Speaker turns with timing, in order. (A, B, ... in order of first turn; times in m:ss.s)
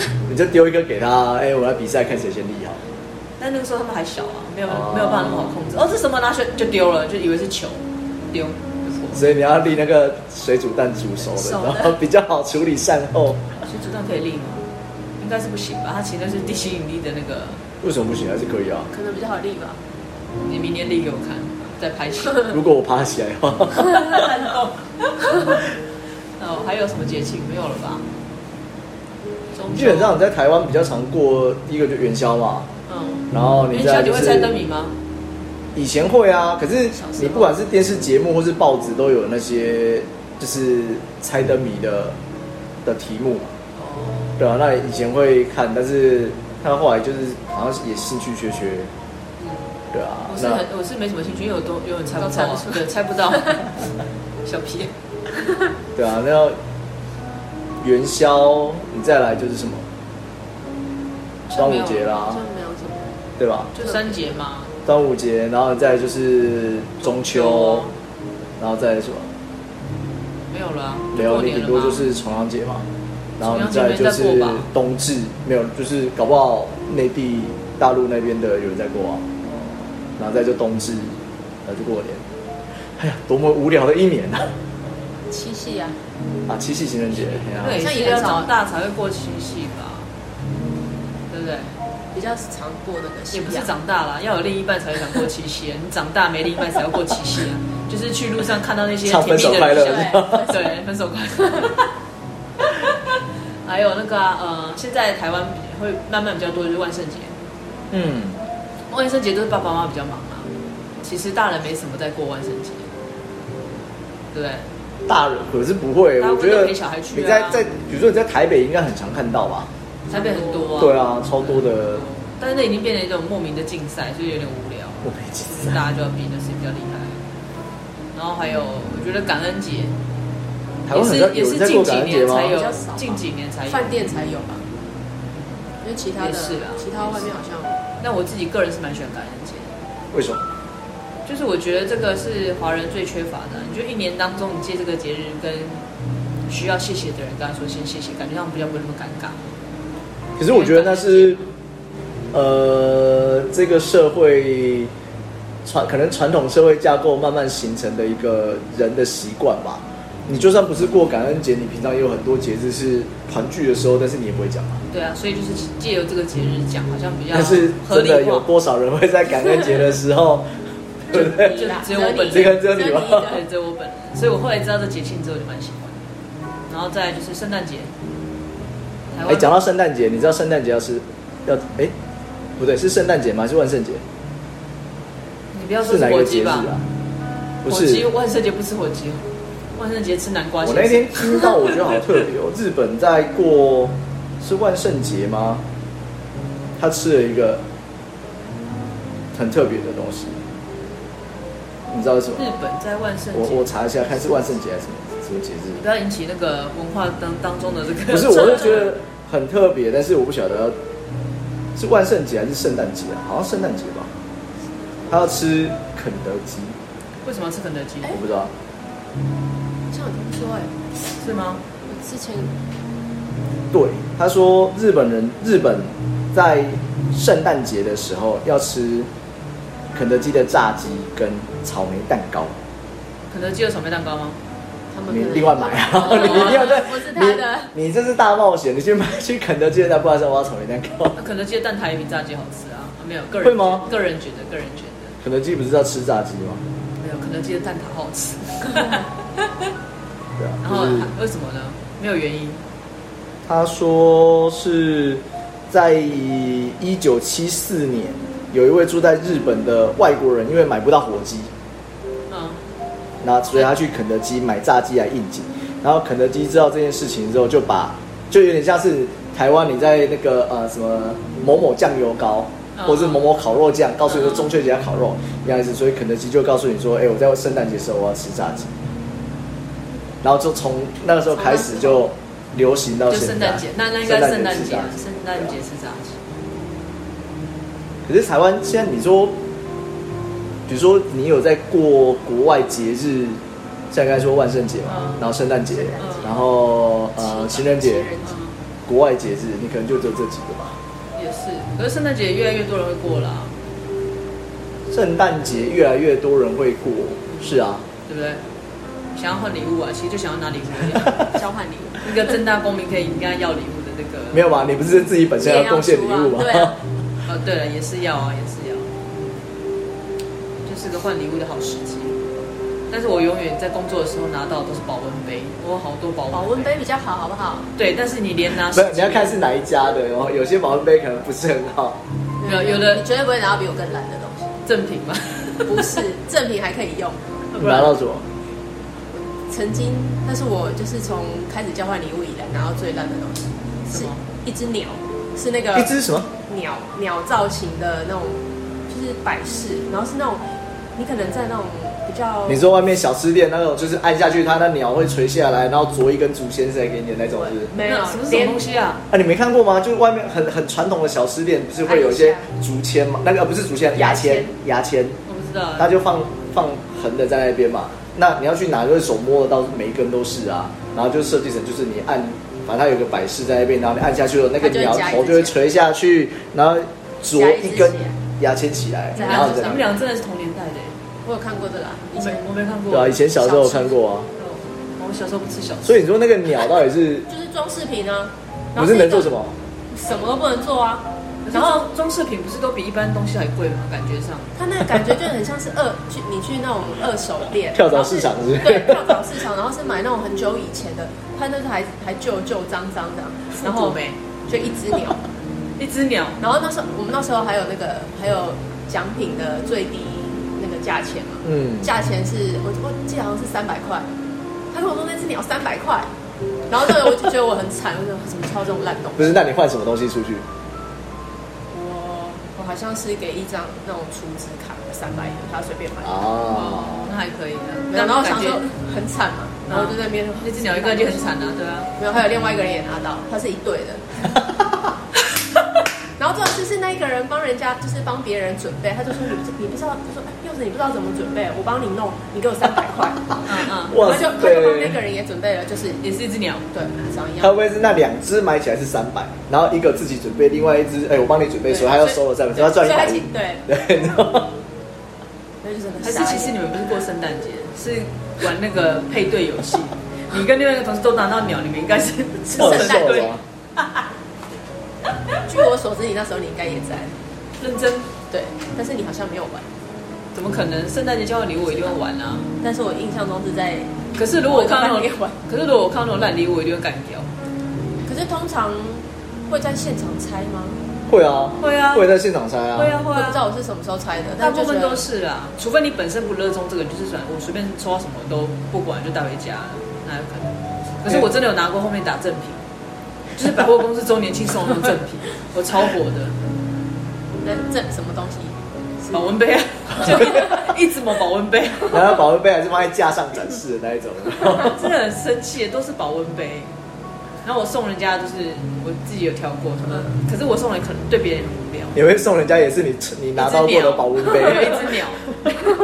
0:00.2-0:02.8 A
0:03.4-0:09.3 B
0:04.7-0:05.6 A
0:09.1-0:13.4 A
0:11.2-0:12.0 C
0:13.6-0:14.7 B
0:15.2-0:17.6 B
0:17.8-0:18.9 A
0:18.9-0:19.8 C
0:20.4-0:22.5 B
0:22.5-0:24.2 A
0:23.8-0:25.6 B
0:26.4-0:28.1 B
0:29.5-0:30.2 B
0:29.8-0:32.7 A
0:32.9-0:35.0 B
0:33.3-0:34.5 A
0:35.8-0:42.2 A
0:37.0-0:37.5 C
0:42.8-0:43.5 A
0:43.8-0:44.4 B
0:44.4-0:48.9 A
0:49.4-0:49.7 B
0:49.9-0:50.6 A
0:50.3-0:53.7 B
0:52.2-0:53.6 C
0:54.4-0:54.9 B
0:56.0-0:56.6 A
0:57.8-0:59.9 A
1:01.5-1:02.1 B
1:01.5-1:02.4 A
1:02.1-1:03.2 C
1:03.4-1:03.7 A
1:03.8-1:04.8 B
1:03.8-1:04.3 C
1:04.9-1:07.9 A
1:07.0-1:08.0 B
1:08.6-1:09.3 A
1:10.5-1:12.0 B
1:11.1-1:12.9 A
1:13.4-1:19.2 A
1:13.4-1:14.7 B
1:20.2-1:22.2 A
1:23.0-1:24.5 A
1:25.3-1:26.0 C
1:26.5-1:27.9 A
1:27.6-1:30.1 B
1:27.8-1:28.5 C
1:31.3-1:31.8 B
1:32.1-1:33.7 C
1:33.3-1:41.9 B
1:39.1-1:40.5 A
1:39.7-1:40.7 C
1:42.6-1:47.4 B
1:47.9-1:48.4 A
1:48.9-1:50.5 B
1:51.0-1:52.9 B
1:54.3-1:54.7 B
1:55.1-1:59.7 A
1:56.2-1:57.7 B
2:00.1-2:07.2 B
2:00.1-2:00.8 C
2:00.8-2:02.1 A
2:05.0-2:05.8 A
2:08.1-2:10.0 B
2:10.9-2:12.6 A
2:10.9-2:13.9 B
2:12.5-2:14.6 C
2:15.8-2:17.8 C
2:16.2-2:17.4 B
2:18.0-2:19.8 B
2:20.1-2:20.4 A
2:21.3-2:25.8 B
2:26.5-2:29.4 B
2:30.4-2:31.4 A
2:30.5-2:31.5 B
2:32.3-2:34.9 A
2:35.6-2:44.8 A
2:44.9-2:48.5 B
2:47.3-2:50.5 A
2:51.1-2:51.7 A
2:51.1-2:56.1 B
2:51.1-2:53.4 C
2:52.3-2:53.3 A
2:56.7-2:57.9 B
2:59.1-2:59.5 B
2:59.2-3:01.9 A
3:02.6-3:04.0 A
3:05.5-3:06.7 B
3:05.8-3:06.8 A
3:07.6-3:08.1 A
3:07.7-3:12.0 B
3:10.6-3:15.6 A
3:16.8-3:17.6 A
3:19.3-3:20.4 A
3:21.9-3:22.5 A
3:22.3-3:23.7 B
3:23.3-3:25.8 A
3:25.7-3:28.9 B
3:28.1-3:30.8 A
3:31.8-3:34.1 A
3:35.1-3:36.8 A
3:37.2-3:38.2 B
3:38.1-3:38.5 A
3:39.9-3:40.7 C
3:41.2-3:41.6 B
3:41.8-3:42.5 C
3:43.7-3:49.1 A
3:49.9-3:52.6 A
3:53.3-3:54.4 B
3:54.9-3:57.7 C
3:55.1-4:01.2 A
3:56.0-3:56.7 B
4:01.2-4:05.2 B
4:03.4-4:03.8 A
4:05.2-4:06.6 A
4:07.0-4:09.7 B
4:10.4-4:11.1 A
4:10.6-4:12.6 B
4:13.5-4:21.5 A
4:22.3-4:22.6 B
4:23.2-4:38.7 A
4:32.8-4:33.2 B
4:34.2-4:34.4 B
4:40.2-4:45.5 A
4:41.3-4:42.1 C
4:43.1-4:46.2 B
4:48.1-4:49.4 A
4:50.7-4:53.4 A
4:53.9-4:58.1 A
4:54.9-4:55.2 B
4:55.7-4:56.4 C
4:56.0-4:56.3 B
4:57.2-4:58.5 C
4:58.9-5:00.8 A
5:01.2-5:03.6 B
5:04.9-5:07.8 A
5:07.3-5:08.4 B
5:09.2-5:11.3 B
5:11.3-5:12.3 C
5:12.0-5:14.5 B
5:14.3-5:16.8 A
5:15.4-5:16.8 C
5:17.3-5:19.4 B
5:20.6-5:22.2 B
5:22.9-5:26.7 B
5:26.3-5:27.7 C
5:27.8-5:29.4 B
5:28.7-5:32.0 A
5:32.4-5:34.6 C
5:32.4-5:33.0 B
5:34.6-5:36.0 B
5:35.7-5:37.3 C
5:37.5-5:38.0 B
5:37.6-5:38.3 A
5:39.1-5:50.4 C
5:43.9-5:44.2 B
5:45.7-5:46.3 A
5:51.0-5:52.8 C
5:52.5-5:57.7 A
5:57.3-5:58.6 C
5:57.8-5:59.0 B
5:59.1-6:05.2 A
6:01.8-6:02.5 C
6:04.0-6:04.5 C
6:05.3-6:05.9 B
6:05.8-6:19.8 A
6:14.6-6:15.7 C
6:17.3-6:18.2 C
6:19.2-6:19.9 C
6:19.2-6:21.0 B
6:21.2-6:22.5 C
6:22.2-6:23.2 B
6:22.9-6:24.3 A
6:23.2-6:24.0 C
6:24.4-6:26.1 B
6:25.8-6:27.3 A
6:27.3-6:29.3 C
6:28.8-6:29.5 A
6:29.9-6:31.9 C
6:31.4-6:34.6 B
6:34.6-6:45.2 C
6:37.7-6:39.2 A
6:43.5-6:44.2 B
6:45.8-6:46.4 B
6:46.4-6:54.1 C
6:51.4-6:51.9 A
6:54.7-6:56.1 C
6:56.7-6:59.4 C
6:59.2-7:00.4 A
7:01.7-7:06.3 C
7:06.0-7:07.1 A
7:06.5-7:08.6 B
7:07.9-7:11.3 C
7:09.7-7:11.9 B
7:12.0-7:14.3 C
7:16.2-7:26.0 C
7:23.4-7:24.3 B
7:23.9-7:25.0 A
7:26.0-7:26.7 B
7:26.7-7:27.6 C
7:27.4-7:34.6 A
7:31.7-7:33.7 C
7:35.6-7:36.6 C
7:36.0-7:44.1 B
7:42.6-7:43.3 C
7:42.6-7:43.4 A
7:45.2-7:45.4 B
7:45.4-7:47.2 C
7:47.6-7:48.1 B
7:48.3-7:49.7 C
7:50.3-7:52.5 B
7:51.7-7:52.0 C
7:52.6-7:55.4 C
7:54.2-7:57.3 B
7:58.0-8:00.8 C
8:01.1-8:03.0 A
8:01.6-8:02.1 B
8:02.7-8:03.4 B
8:03.1-8:05.0 C
8:04.4-8:12.6 B
8:13.4-8:16.4 B
8:17.4-8:19.3 C
8:19.1-8:22.2 B
8:20.0-8:20.7 C
8:21.9-8:24.8 A
8:24.4-8:26.7 B
8:27.4-8:32.0 B
8:31.9-8:34.9 A
8:33.4-8:35.5 B